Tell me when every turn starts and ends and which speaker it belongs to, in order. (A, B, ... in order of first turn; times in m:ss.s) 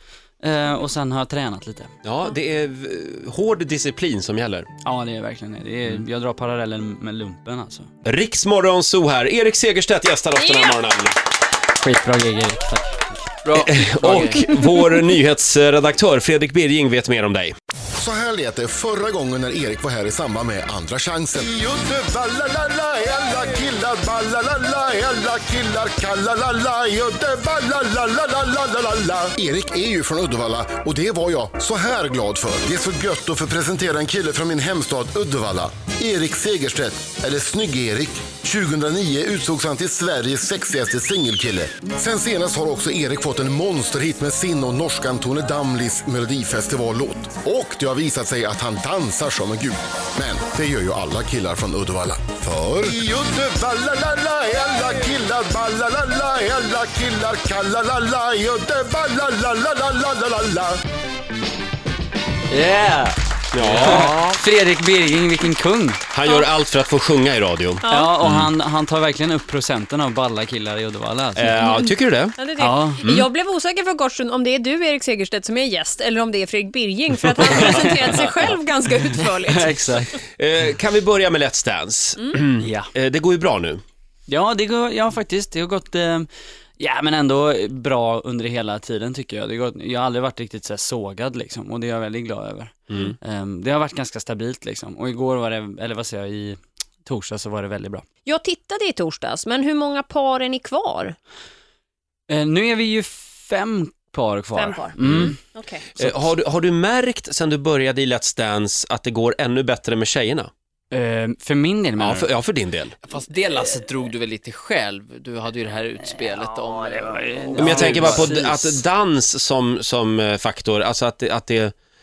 0:00.4-0:01.9 A
0:02.0-0:04.7 B
0:04.8-0:07.9 A
0:08.0-0:11.2 B
0:10.4-0:10.9 C
0:11.8-0:13.2 A
0:13.4-0:14.5 D
0:13.5-0:17.6 B
0:18.0-1:00.8 E
1:02.5-1:06.0 A
1:03.5-1:04.3 B
1:06.1-1:08.5 B
1:07.8-1:08.1 C
1:07.9-1:11.7 A
1:11.4-1:12.4 B
1:11.6-1:20.2 C
1:12.6-1:13.0 A
1:17.4-1:18.4 A
1:19.4-1:20.2 A
1:20.4-1:23.8 B
1:22.6-1:22.9 A
1:24.3-1:38.0 A
1:32.9-1:33.2 B
1:38.2-1:41.2 C
1:42.3-1:45.4 A
1:44.6-1:45.9 C
1:45.0-1:45.3 B
1:46.0-1:50.5 B
1:46.0-1:46.3 A
1:50.9-1:52.3 A
1:52.0-1:52.9 B
1:53.0-1:58.1 D
1:56.2-1:58.8 A
1:57.6-2:01.7 B